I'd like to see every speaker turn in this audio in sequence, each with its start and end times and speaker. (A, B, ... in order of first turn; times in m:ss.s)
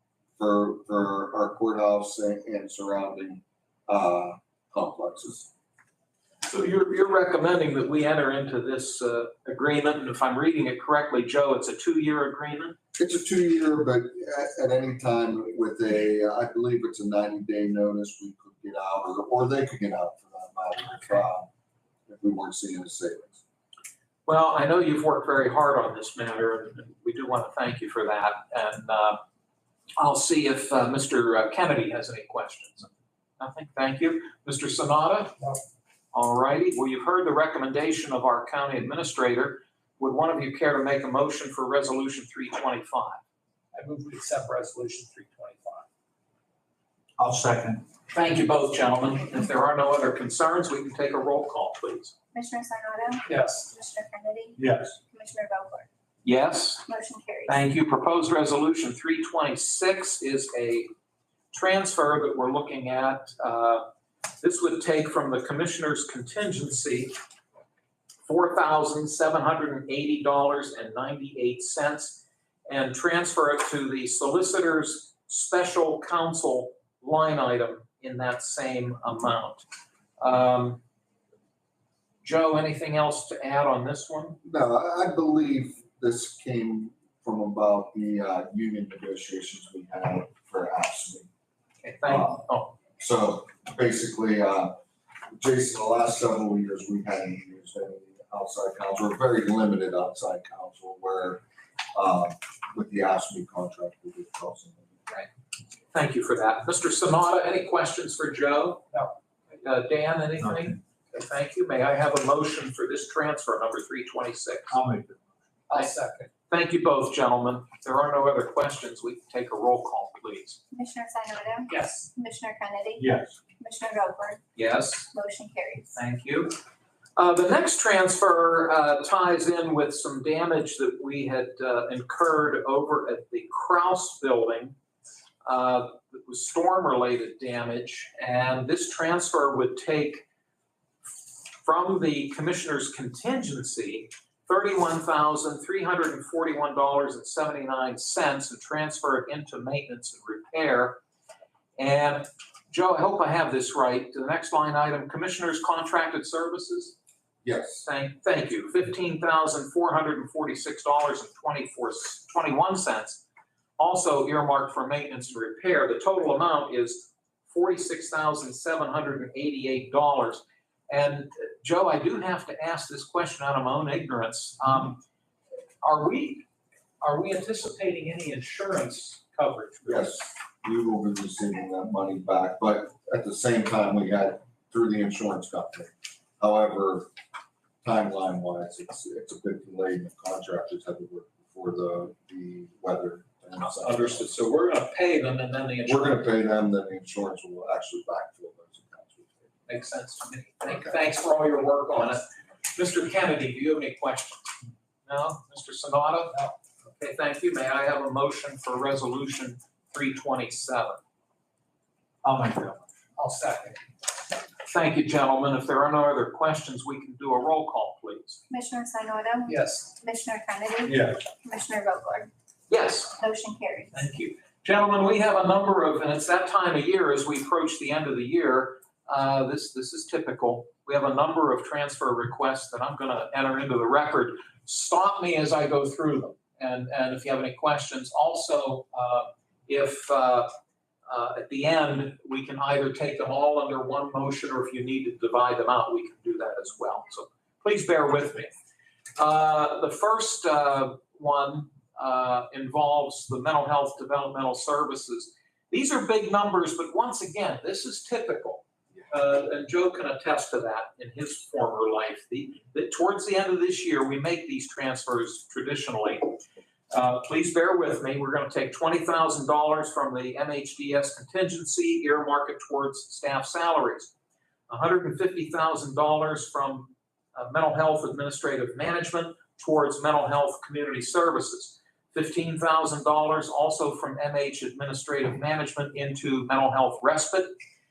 0:00.4-0:05.5 A
0:06.4-0:12.8 B
0:13.0-0:21.5 A
0:22.1-0:23.4 A
0:24.3-0:29.2 B
0:30.0-0:32.9 B
0:33.4-0:35.4 B
0:36.1-0:43.2 B
0:43.8-0:45.8 C
0:47.2-0:47.8 D
0:48.1-0:52.1 B
0:52.3-0:55.9 E
0:53.3-0:53.7 C
0:54.6-0:55.0 D
0:56.2-0:56.9 B
0:56.9-0:57.6 E
0:57.5-1:00.9 B
1:01.5-1:03.8 B
1:04.4-1:07.2 B
1:08.3-1:19.6 B
1:20.2-1:20.8 B
1:22.2-1:24.4 B
1:24.4-1:31.3 A
1:31.8-1:32.7 B
1:32.1-1:32.5 A
1:33.0-1:34.8 A
1:35.3-1:41.4 A
1:41.9-1:45.0 A
1:45.9-1:48.9 B
1:49.5-1:54.8 B
1:50.4-1:50.8 D
1:54.7-1:55.3 D
1:55.7-1:56.3 C
1:56.5-2:00.6 B
2:00.7-2:04.4 E
2:01.7-2:02.1 C
2:03.0-2:03.4 D
2:04.6-2:05.1 B
2:05.1-2:05.9 E
2:06.0-2:06.6 B
2:07.2-2:14.8 B
2:15.4-2:20.2 B
2:21.6-2:31.0 B
2:31.8-2:37.0 B
2:37.4-2:37.9 A
2:37.8-2:43.2 B
2:43.8-2:55.0 B
2:55.8-2:56.5 B
2:57.0-3:00.2 B
2:59.9-3:07.1 A
3:07.8-3:14.3 A
3:13.6-3:16.3 B
3:15.9-3:19.5 A
3:19.7-3:24.5 B
3:20.6-3:21.0 A
3:25.1-3:31.0 B
3:32.2-3:32.9 D
3:33.2-3:33.8 C
3:34.6-3:38.4 B
3:38.5-3:42.3 E
3:39.5-3:39.9 C
3:40.9-3:41.2 D
3:42.7-3:43.2 B
3:43.2-3:44.1 E
3:43.9-4:00.5 B
4:01.1-4:08.5 B
4:09.2-4:26.4 B
4:26.9-4:34.1 B
4:34.7-4:47.5 B